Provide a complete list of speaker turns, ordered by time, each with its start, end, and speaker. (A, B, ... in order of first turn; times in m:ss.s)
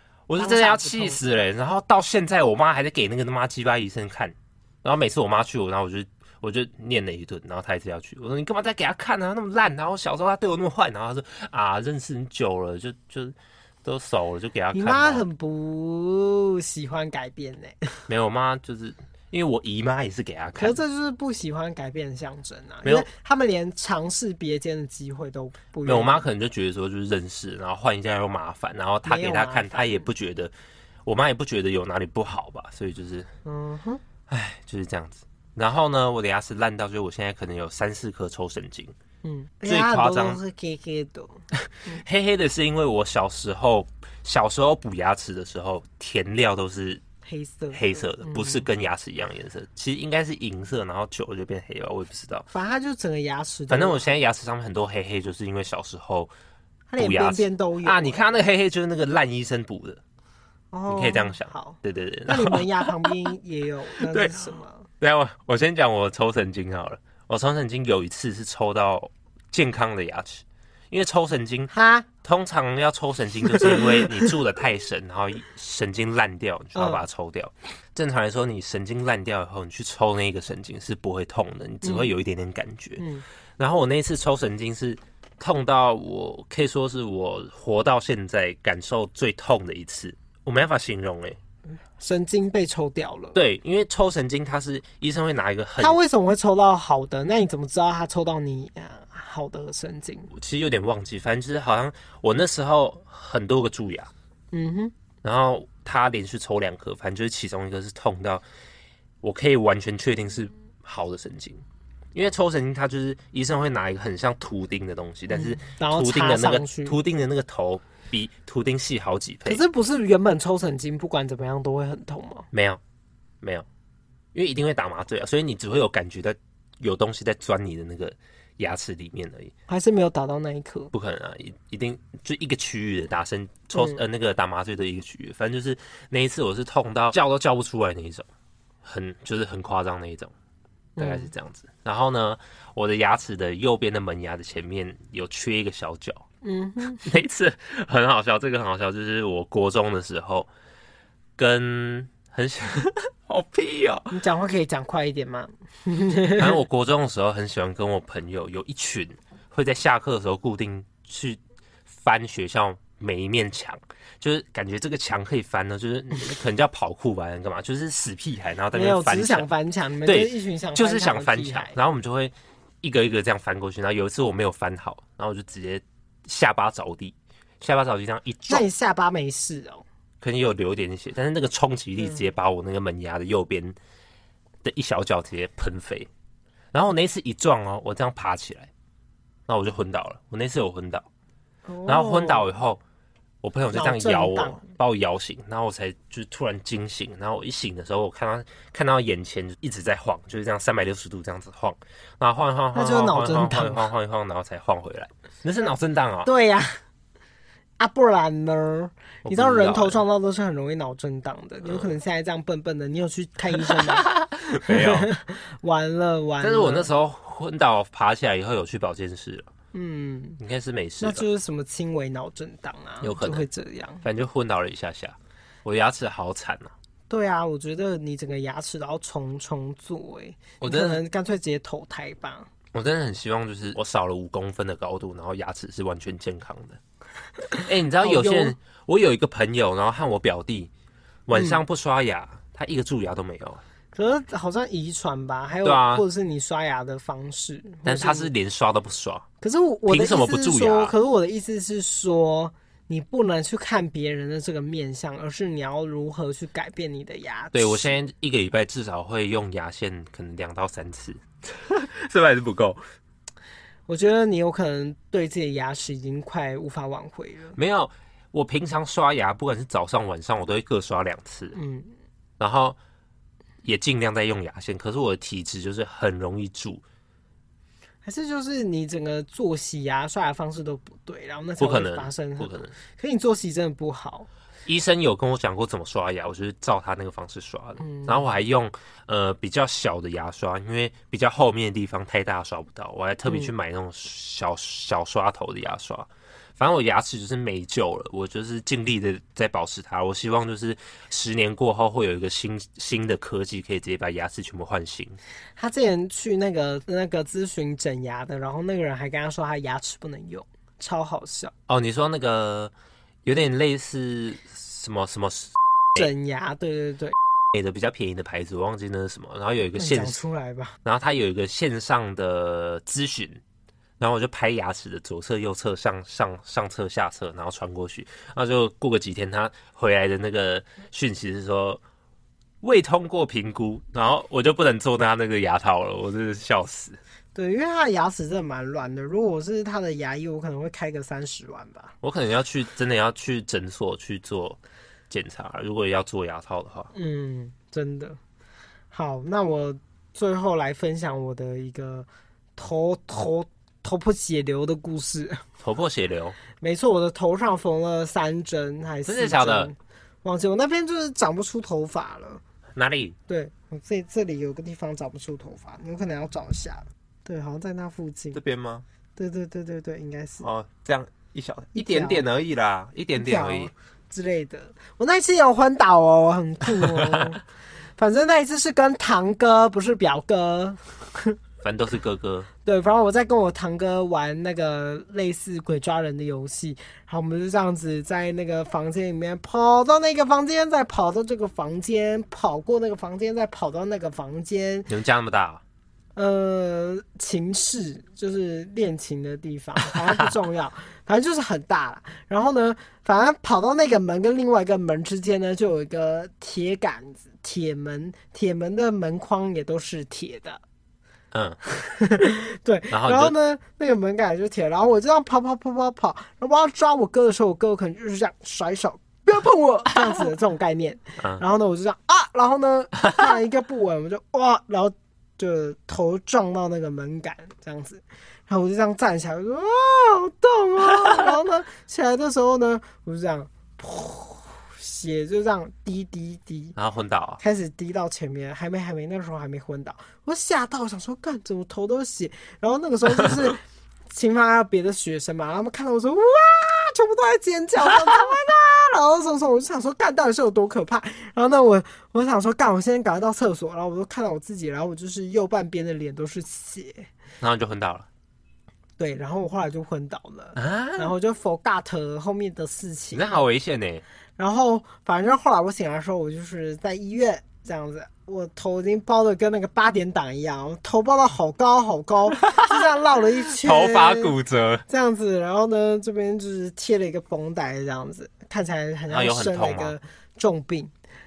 0:00.3-0:15.2 A
0:00.4-0:01.2 B
0:14.7-0:18.0 B
0:18.1-0:20.8 A
0:20.6-0:26.2 B
0:25.9-0:30.5 A
0:29.0-0:30.1 B
0:31.0-0:33.3 A
0:33.4-0:34.0 B
0:34.3-0:38.9 A
0:39.2-0:42.0 B
0:39.7-0:40.4 A
0:41.6-0:47.0 A
0:47.2-0:48.6 B
0:47.7-0:52.5 A
0:52.5-0:54.2 B
0:53.7-0:56.3 A
0:56.9-0:58.4 B
0:57.0-1:00.0 A
1:00.7-1:04.9 B
1:00.9-1:03.3 A
1:04.1-1:04.5 A
1:05.0-1:11.7 A
1:11.7-1:12.1 B
1:12.2-1:23.0 A
1:13.5-1:14.3 B
1:16.8-1:17.0 B
1:21.8-1:22.1 B
1:23.0-1:23.2 B
1:23.6-1:31.4 A
1:32.0-1:33.4 B
1:33.4-1:36.0 A
1:35.8-1:40.3 B
1:40.3-1:44.1 A
1:44.5-1:44.9 B
1:45.2-1:48.4 A
1:49.2-1:59.6 A
1:55.3-1:57.0 B
1:59.5-2:02.5 B
2:02.5-2:02.8 A
2:03.4-2:03.7 A
2:04.3-2:09.5 A
2:09.7-2:10.9 B
2:10.9-2:18.3 A
2:13.8-2:14.0 B
2:18.8-2:20.3 A
2:21.0-2:21.3 B
2:21.0-2:26.2 A
2:26.4-2:27.0 B
2:27.0-2:30.5 A
2:31.4-2:34.2 A
2:34.1-2:36.6 B
2:36.4-2:49.5 A
2:48.7-2:51.8 B
2:50.0-2:58.7 A
2:58.5-2:59.8 B
3:00.2-3:03.8 A
3:04.6-3:06.1 A
3:06.7-3:08.7 A
3:09.5-3:11.1 A
3:11.7-3:12.5 B
3:11.9-3:12.8 A
3:13.4-3:26.3 A
3:13.7-3:14.6 B
3:22.7-3:23.9 B
3:26.2-3:26.8 B
3:27.8-3:34.1 B
3:29.2-3:30.0 A
3:31.6-3:31.9 A
3:33.6-3:35.1 A
3:34.6-3:36.9 B
3:36.4-3:39.5 A
3:39.7-3:40.4 B
3:40.4-3:41.2 A
3:41.0-3:44.0 B
3:43.0-3:43.4 A
3:44.0-3:46.7 A
3:47.1-3:52.5 B
3:50.6-3:51.0 A
3:52.7-3:56.8 A
3:57.5-3:58.6 B
3:57.6-4:00.7 A
4:01.3-4:03.6 A
4:01.3-4:01.6 B
4:04.0-4:08.3 B
4:05.6-4:06.0 A
4:07.8-4:09.3 A
4:09.4-4:17.9 B
4:09.9-4:11.0 A
4:17.5-4:22.8 A
4:23.9-4:27.6 B
4:27.6-4:31.6 A
4:31.5-4:31.9 B
4:32.4-4:32.8 A
4:33.6-4:36.8 A
4:38.0-4:44.3 B
4:41.6-4:42.7 A
4:44.7-5:05.2 A
4:47.8-4:48.3 B
5:05.6-5:11.5 B
5:11.7-5:12.7 A
5:13.2-5:16.1 A
5:16.0-5:17.2 B
5:17.5-5:20.2 A
5:19.8-5:20.8 B
5:20.8-5:23.4 A
5:24.0-5:31.8 A
5:32.6-5:37.0 A
5:37.4-5:41.9 B
5:42.0-5:44.6 A
5:45.1-5:46.9 A
5:46.9-5:48.2 B
5:48.9-5:55.4 B
5:55.6-5:56.4 A
5:56.6-6:02.4 B
5:59.1-5:59.7 A
6:02.8-6:03.2 A
6:03.3-6:08.4 B
6:08.3-6:08.8 A
6:09.2-6:10.5 B
6:10.4-6:13.7 A
6:11.8-6:12.2 B
6:13.2-6:17.4 B
6:16.8-6:17.3 A
6:18.0-6:21.4 B
6:21.6-6:22.5 A
6:22.6-6:34.9 B
6:34.9-6:35.6 A
6:36.2-6:50.6 B
6:40.0-6:40.2 A
6:51.3-6:51.6 A
6:51.8-7:16.8 B
6:52.9-6:53.3 A
7:16.8-7:17.4 A
7:17.4-7:37.1 B
7:37.4-7:38.1 A
7:39.0-7:43.4 B
7:40.6-7:41.1 A
7:43.1-7:44.0 A
7:44.4-7:54.4 B
7:52.4-7:52.8 A
7:53.5-7:54.8 A
7:54.9-8:00.9 B
7:59.1-8:00.0 A